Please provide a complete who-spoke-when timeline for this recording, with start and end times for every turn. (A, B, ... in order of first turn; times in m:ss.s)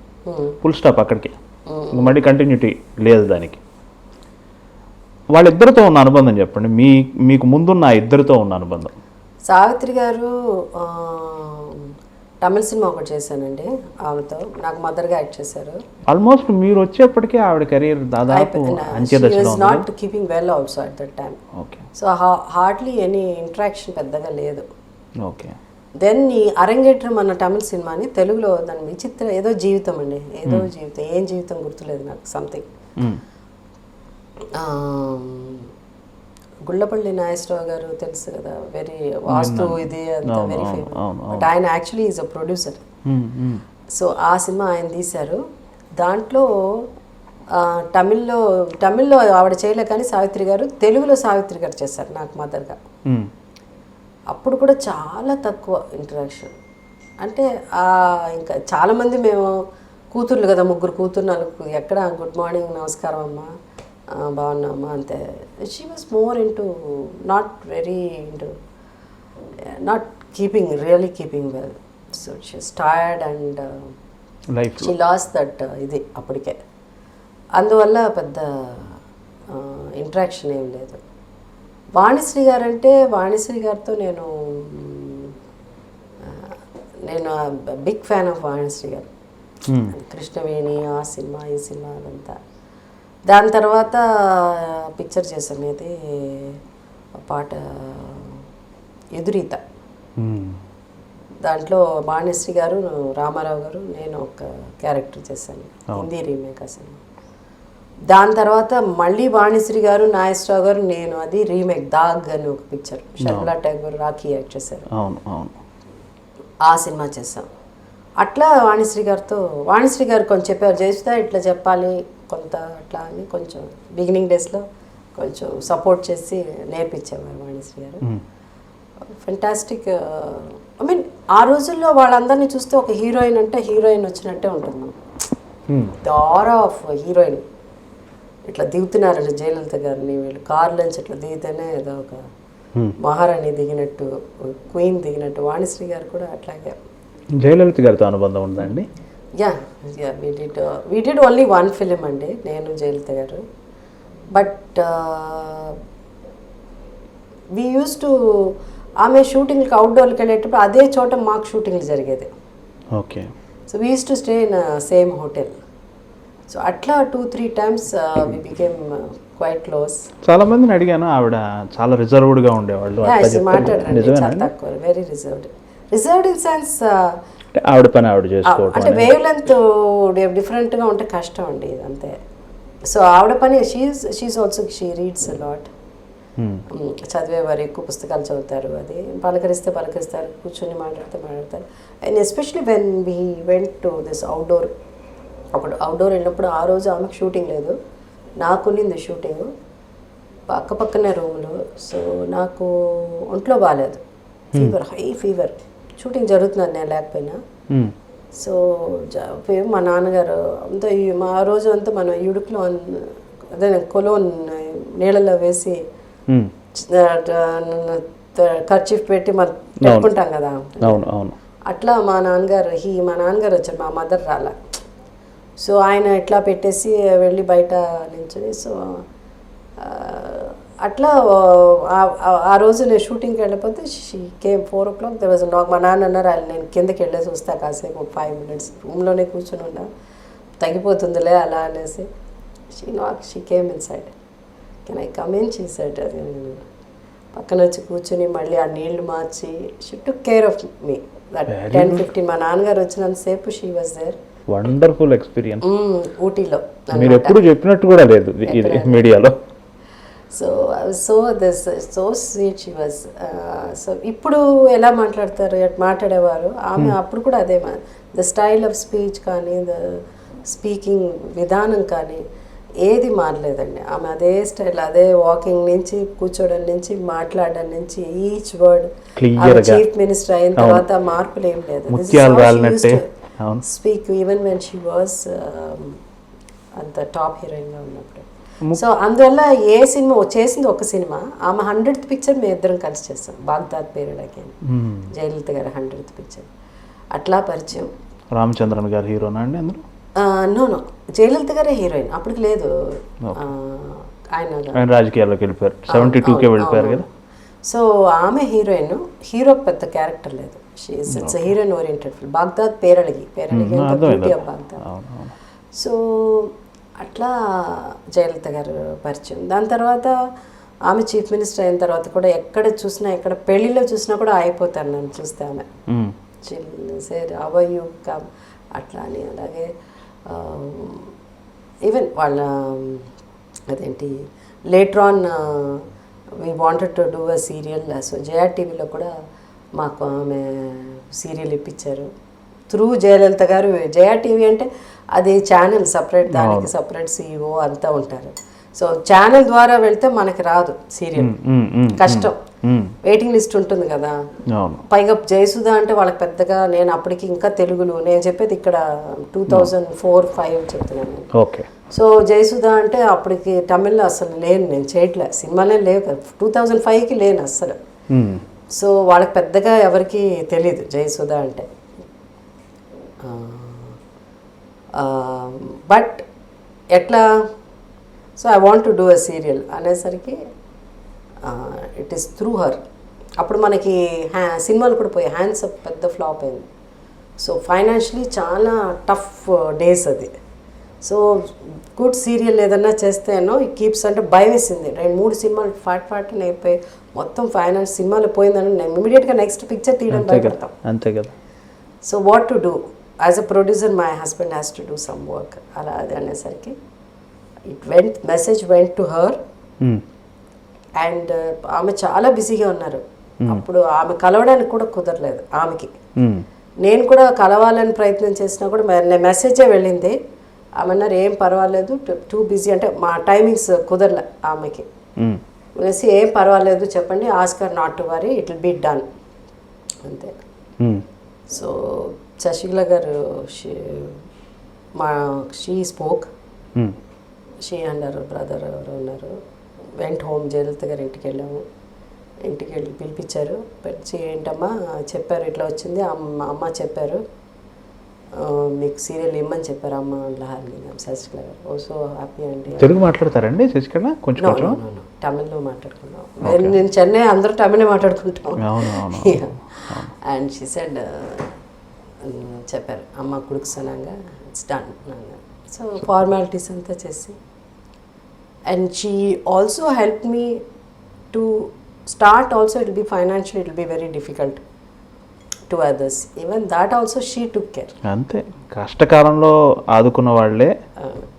0:00.3-0:00.6 A
0:00.6-0:01.4 B
0:01.7-0:02.3 A
0:01.9-0:03.6 B
0:05.3-0:08.9 B
0:09.5-0:11.9 A
0:12.4-0:15.8 A
0:16.1-0:19.8 B
0:18.3-0:21.4 A
0:21.6-0:21.8 B
0:21.9-0:24.6 A
0:25.2-0:25.6 B
0:26.0-0:32.6 A
0:34.6-0:35.7 A
0:36.7-0:42.8 A
0:39.3-0:41.5 B
0:43.0-0:43.6 B
0:43.9-0:45.4 A
0:46.0-0:46.8 A
0:47.5-0:52.8 A
0:54.3-0:56.5 A
0:57.2-0:59.5 A
1:00.1-1:03.5 A
1:04.1-1:08.5 A
1:09.7-1:13.9 A
1:14.5-1:14.9 B
1:14.8-1:16.6 A
1:17.6-1:19.0 A
1:19.5-1:21.0 A
1:22.0-1:25.3 A
1:26.2-1:29.1 A
1:29.7-1:29.9 B
1:29.9-1:32.4 A
1:33.3-1:36.6 A
1:37.2-1:38.4 A
1:39.2-1:39.6 A
1:40.2-1:40.6 B
1:41.4-1:47.0 A
1:48.1-1:54.9 A
1:53.2-1:53.5 B
1:54.9-1:55.6 B
1:56.6-1:57.5 A
1:58.2-2:04.6 A
2:05.2-2:08.0 A
2:09.2-2:14.9 A
2:15.7-2:16.0 B
2:16.0-2:17.4 A
2:18.5-2:22.2 A
2:23.0-2:26.8 A
2:27.4-2:28.8 B
2:29.4-2:33.4 A
2:34.3-2:35.8 A
2:37.5-2:42.3 A
2:43.0-2:43.3 B
2:43.7-2:45.5 A
2:46.5-2:50.1 A
2:50.2-2:54.5 B
2:53.0-2:57.2 A
2:57.5-2:59.1 B
2:58.4-3:02.1 A
3:02.9-3:05.7 A
3:06.7-3:14.7 A
3:15.6-3:17.7 A
3:18.4-3:19.5 A
3:20.5-3:24.0 A
3:24.5-3:27.4 A
3:28.4-3:35.8 A
3:36.8-3:41.1 A
3:39.8-3:40.1 B
3:40.8-3:41.3 B
3:41.7-3:44.6 A
3:45.6-3:49.0 A
3:49.8-3:59.9 A
4:00.6-4:02.1 A
4:02.7-4:04.1 A
4:04.8-4:06.6 A
4:07.3-4:14.2 A
4:11.5-4:12.1 B
4:14.5-4:15.7 B
4:15.6-4:17.4 A
4:16.9-4:19.3 B
4:18.4-4:19.1 A
4:20.3-4:32.2 A
4:32.8-4:43.0 A
4:39.2-4:39.8 B
4:40.6-4:40.8 B
4:41.9-4:43.6 B
4:43.6-4:46.0 A
4:46.8-4:54.5 A
4:54.7-4:55.1 B
4:55.1-4:56.5 A
4:57.1-4:57.9 A
4:58.4-4:59.8 B
5:00.2-5:04.8 A
5:04.8-5:07.0 B
5:05.9-5:07.0 A
5:07.6-5:14.8 A
5:11.1-5:11.5 B
5:13.5-5:15.3 B
5:15.8-5:20.1 A
5:20.9-5:25.7 A
5:25.9-5:26.1 B
5:26.4-5:28.2 A
5:28.7-5:29.7 A
5:30.3-5:31.1 A
5:31.8-5:33.1 A
5:33.7-5:34.1 A
5:34.7-5:35.8 A
5:36.4-5:39.1 A
5:39.8-5:42.1 A
5:42.7-5:51.3 A
5:46.3-5:46.7 B
5:51.2-5:52.9 B
5:52.0-5:52.4 A
5:53.0-5:54.1 A
5:54.5-5:54.8 B
5:54.9-5:58.8 A
5:59.3-6:01.3 A
6:01.3-6:01.7 B
6:01.9-6:07.8 A
6:08.1-6:08.4 B
6:08.7-6:11.7 A
6:13.2-6:14.0 A
6:15.0-6:16.2 A
6:16.9-6:17.3 A
6:18.4-6:20.4 A
6:21.4-6:22.8 A
6:23.4-6:26.7 A
6:27.4-6:30.3 A
6:31.0-6:40.7 A
6:40.1-6:41.3 B
6:42.0-6:46.7 A
6:47.7-6:49.4 A
6:51.0-6:55.9 A
6:56.2-6:56.4 B
6:56.8-7:00.1 A
7:00.8-7:04.9 A
7:05.8-7:09.1 A
7:10.0-7:10.3 A
7:11.5-7:14.2 A
7:15.0-7:16.3 A
7:17.6-7:19.3 A
7:20.0-7:21.6 A
7:22.4-7:27.2 A
7:28.4-7:32.9 A
7:32.8-7:34.8 B
7:34.4-7:39.6 A
7:36.4-7:36.7 B
7:38.6-7:40.1 B
7:40.2-7:41.5 A
7:42.2-7:47.4 A
7:48.7-7:50.6 A
7:51.3-7:54.6 A
7:55.7-7:57.9 A
7:58.0-8:00.7 B
8:01.0-8:01.3 A